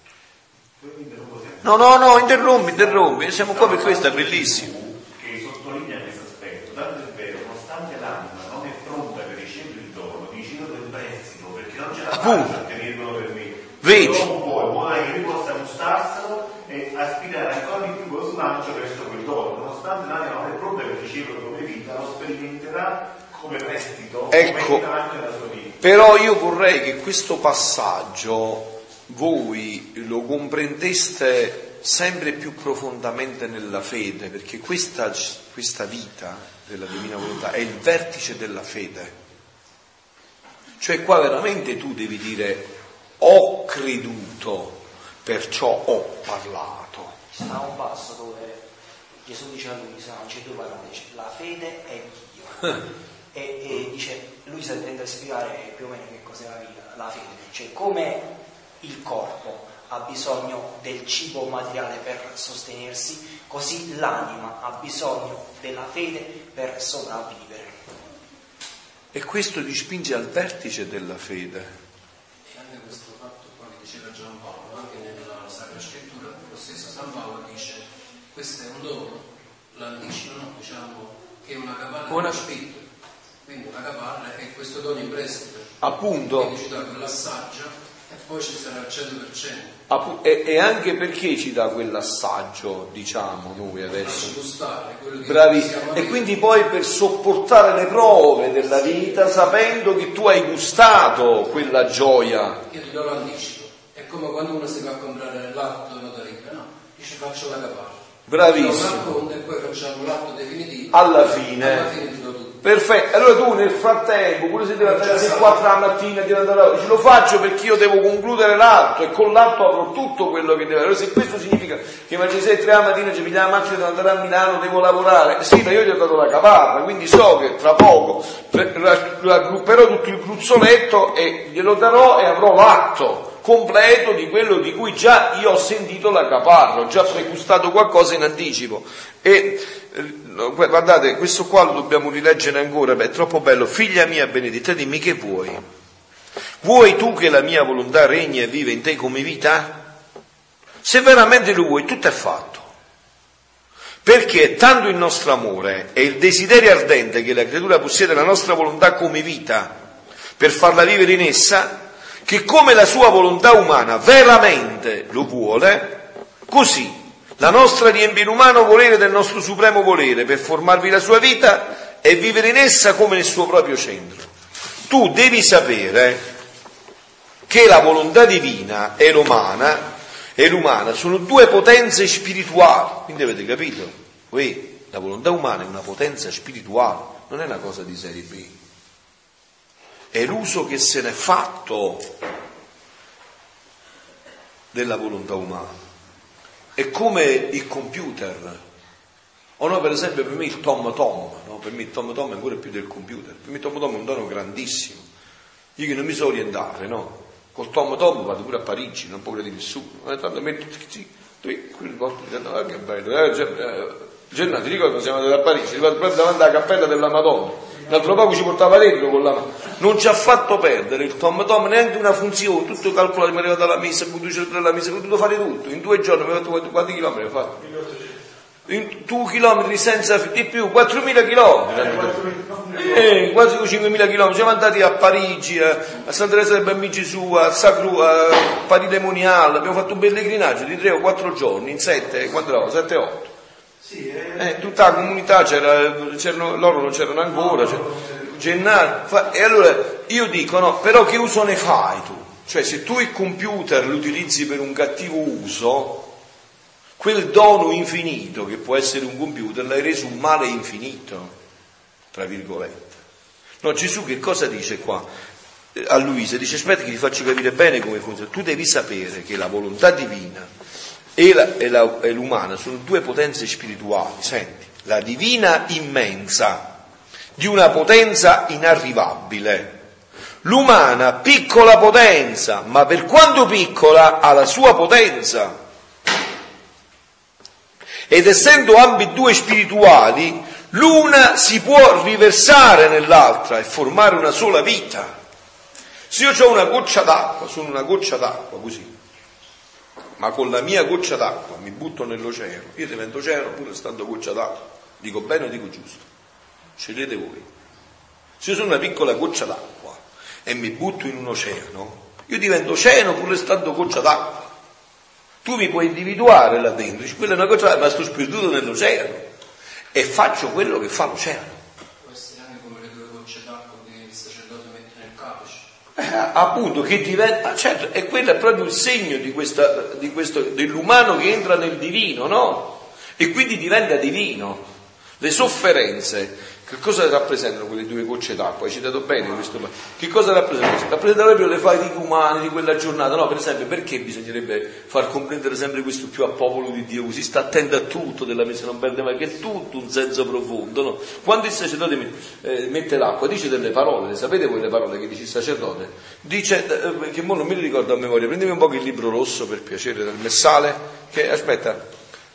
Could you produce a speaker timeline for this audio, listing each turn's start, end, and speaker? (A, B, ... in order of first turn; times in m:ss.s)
0:00.8-0:25.8 A
0:01.6-0:04.7 B
0:12.1-0:12.6 B
0:13.8-0:14.3 B
0:24.3-0:24.8 B
0:25.8-0:39.2 B
0:40.8-0:47.2 B
0:47.3-0:48.6 C
0:49.2-0:58.3 C
0:58.8-1:07.8 C
1:09.1-1:11.7 B
1:12.4-1:22.9 D
1:22.1-1:22.4 B
1:23.4-1:25.8 D
1:25.8-1:26.5 B
1:26.3-1:29.8 D
1:29.9-1:34.4 B
1:34.0-1:36.3 D
1:35.2-1:42.6 B
1:42.7-1:52.6 D
1:48.3-1:49.1 B
1:50.9-1:51.9 B
1:52.6-2:25.6 B
1:54.8-1:55.6 D
2:26.6-2:29.9 B
2:30.8-2:32.7 B
2:34.0-2:39.8 B
2:40.4-2:54.3 B
2:54.9-2:56.2 B
2:57.5-3:08.6 B
3:10.1-3:12.1 B
3:14.7-3:15.8 B
3:16.8-3:18.6 B
3:19.6-3:25.0 B
3:25.8-3:47.6 B
3:47.6-3:48.0 E
3:48.7-4:03.3 B
3:51.7-3:53.2 E
4:03.8-4:04.6 E
4:04.4-4:16.1 B
4:07.3-4:08.3 E
4:17.0-4:21.4 B
4:22.1-4:23.0 B
4:23.6-4:25.1 B
4:25.8-4:30.5 B
4:31.2-4:36.7 B
4:37.4-4:39.8 B
4:40.4-4:45.6 B
4:48.1-4:55.1 B
4:56.1-4:58.9 B
5:00.2-5:06.1 B
5:06.8-5:07.5 B
5:08.4-5:14.5 B
5:15.4-5:19.2 B
5:19.9-5:21.6 B
5:22.0-5:25.7 D
5:26.0-5:34.7 B
5:35.2-6:01.8 B